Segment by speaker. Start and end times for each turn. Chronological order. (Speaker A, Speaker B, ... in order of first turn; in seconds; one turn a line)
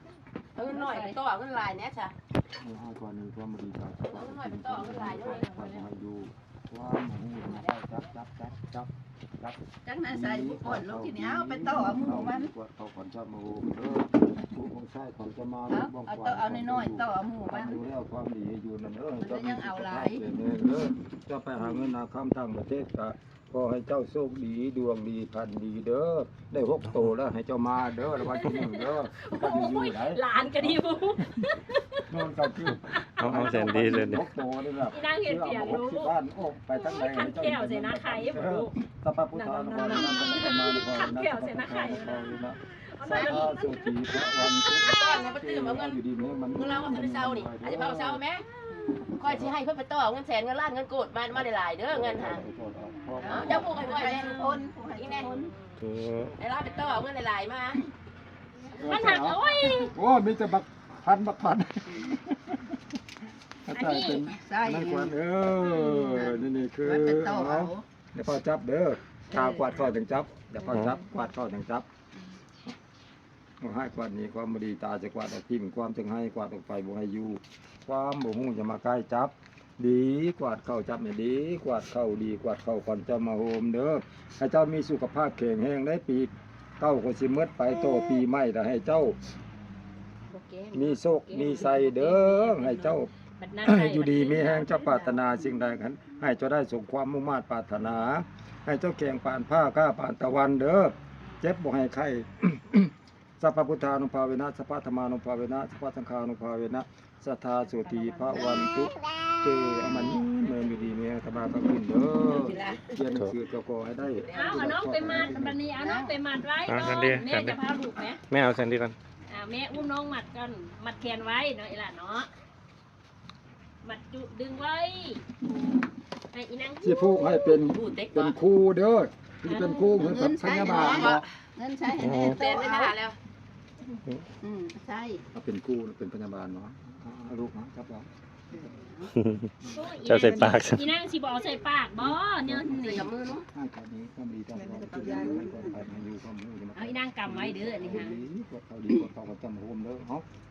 Speaker A: 0.6-2.1
Speaker B: 0.7-1.1
Speaker C: 0.7-1.1
Speaker D: 2.5-30.9
Speaker A: 4.0-5.8
Speaker B: 5.1-5.8
Speaker C: 9.8-12.5
Speaker C: 15.7-17.8
Speaker C: 19.2-20.2
Speaker B: 28.4-32.0
Speaker D: 32.1-48.2
Speaker B: 32.7-34.0
Speaker E: 33.2-34.2
Speaker B: 34.8-36.1
Speaker B: 36.7-45.3
Speaker A: 44.9-46.0
Speaker A: 46.5-48.5
Speaker C: 48.7-49.2
Speaker B: 48.7-49.1
Speaker A: 49.1-52.5
Speaker D: 49.3-49.5
Speaker D: 51.3-53.8
Speaker C: 53.1-55.5
Speaker A: 53.3-54.4
Speaker B: 53.5-55.8
Speaker A: 55.0-55.3
Speaker E: 55.8-56.4
Speaker A: 56.4-57.8
Speaker B: 56.6-57.0
Speaker D: 58.7-62.8
Speaker B: 58.8-59.9
Speaker D: 63.7-71.8
Speaker B: 63.7-64.3
Speaker C: 64.3-65.1
Speaker B: 65.7-66.2
Speaker C: 66.0-67.8
Speaker D: 73.6-89.2
Speaker B: 90.3-95.4
Speaker D: 90.7-93.1
Speaker D: 93.6-115.6
Speaker B: 107.7-108.7
Speaker B: 110.4-110.9
Speaker A: 112.2-113.0
Speaker A: 114.1-114.6
Speaker B: 114.3-118.2
Speaker C: 115.8-116.2
Speaker E: 116.7-117.6
Speaker E: 118.3-119.0
Speaker B: 119.3-122.3
Speaker B: 123.8-125.2
Speaker B: 126.3-127.6
Speaker D: 126.8-131.2
Speaker A: 127.6-128.4
Speaker B: 129.4-130.2
Speaker C: 129.9-133.0
Speaker A: 130.6-131.2
Speaker E: 132.0-132.4
Speaker A: 132.3-133.2
Speaker C: 134.4-135.2
Speaker D: 135.3-138.1
Speaker C: 138.5-139.1
Speaker E: 139.2-139.5
Speaker D: 139.6-140.6
Speaker B: 139.8-142.9
Speaker E: 140.0-140.9
Speaker D: 142.0-143.0
Speaker C: 142.5-143.1
Speaker A: 142.8-143.4
Speaker D: 143.5-150.2
Speaker C: 144.5-145.8
Speaker B: 146.8-148.2